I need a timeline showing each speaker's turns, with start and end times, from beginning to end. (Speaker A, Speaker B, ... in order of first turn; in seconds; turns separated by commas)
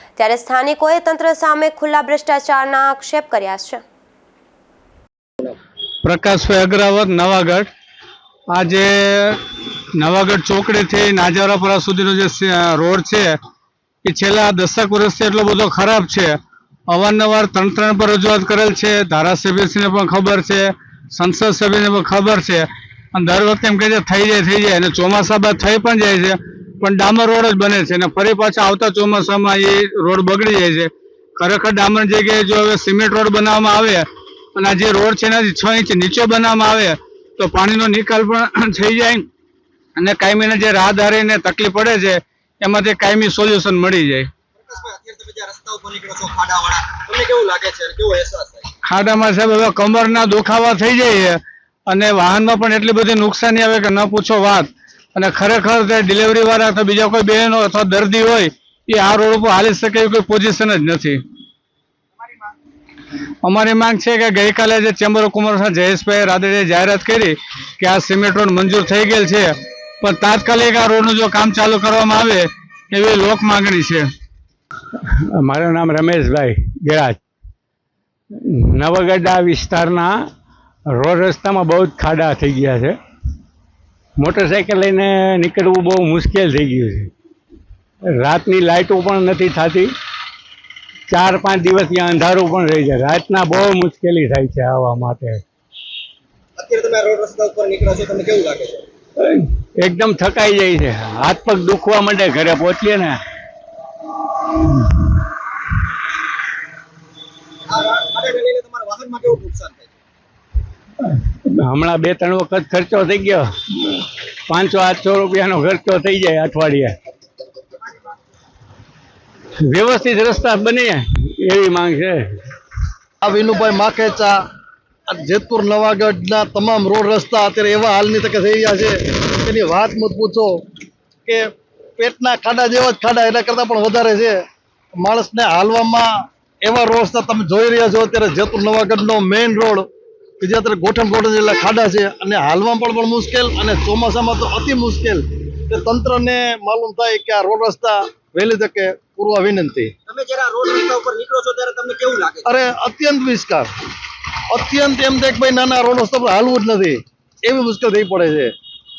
Speaker A: 0.1-3.8, Speaker B: 6.0-7.7, Speaker B: 8.5-9.4, Speaker B: 10.0-13.4, Speaker B: 14.0-16.4, Speaker B: 16.9-39.3, Speaker B: 40.0-44.3, Speaker C: 44.6-48.7, Speaker B: 48.8-61.2, Speaker B: 63.4-74.1, Speaker D: 74.9-77.2, Speaker D: 78.3-80.3, Speaker D: 80.9-83.0, Speaker D: 84.2-87.1, Speaker D: 88.0-89.9, Speaker D: 91.1-95.4, Speaker C: 96.6-98.8, Speaker D: 99.2-103.2, Speaker C: 107.7-110.0, Speaker D: 111.0-116.9, Speaker D: 119.6-122.4, Speaker E: 123.2-124.4, Speaker E: 125.1-130.6, Speaker E: 131.2-134.4, Speaker E: 135.0-136.1, Speaker E: 136.6-139.9, Speaker E: 140.4-149.9, Speaker C: 150.1-152.5, Speaker E: 152.4-153.7, Speaker E: 154.5-158.5